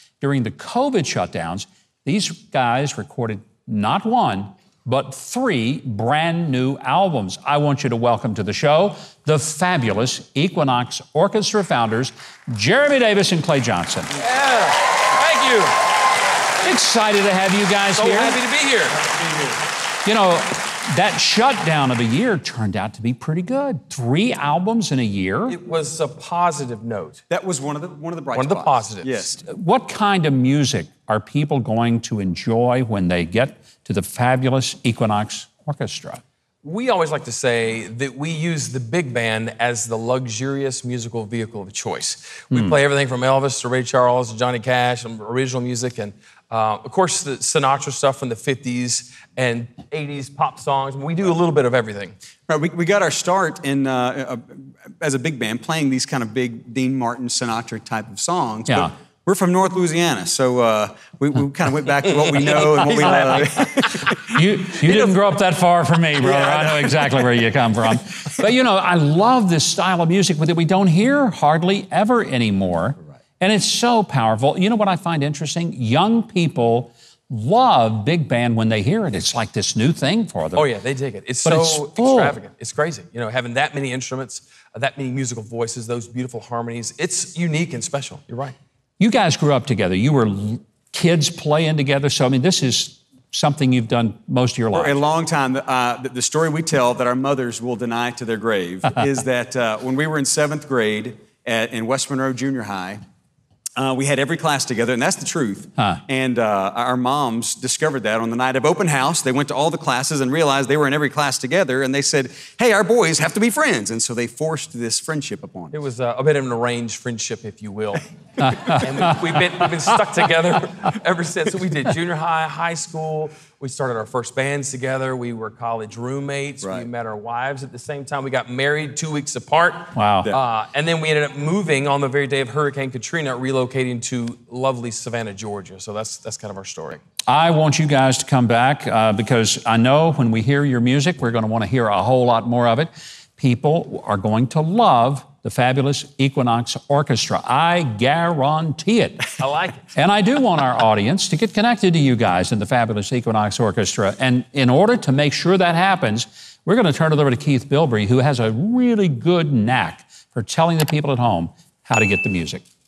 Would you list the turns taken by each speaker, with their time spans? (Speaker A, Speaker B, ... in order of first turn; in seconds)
Speaker A: 0.2-14.2, 16.6-18.4, 20.0-25.6, 29.4-36.2, 63.0-63.4, 64.1-80.7, 81.4-82.3, 89.0-95.0, 118.4-118.8, 129.9-130.3, 137.3-149.3, 149.9-162.6
Speaker B: 14.1-15.8, 17.9-19.5, 25.5-27.2, 28.3-29.1, 36.6-52.1, 62.5-63.5, 80.5-88.5, 115.7-137.0, 149.4-149.8
Speaker C: 27.3-29.4, 52.5-64.0, 94.7-103.0, 103.8-115.7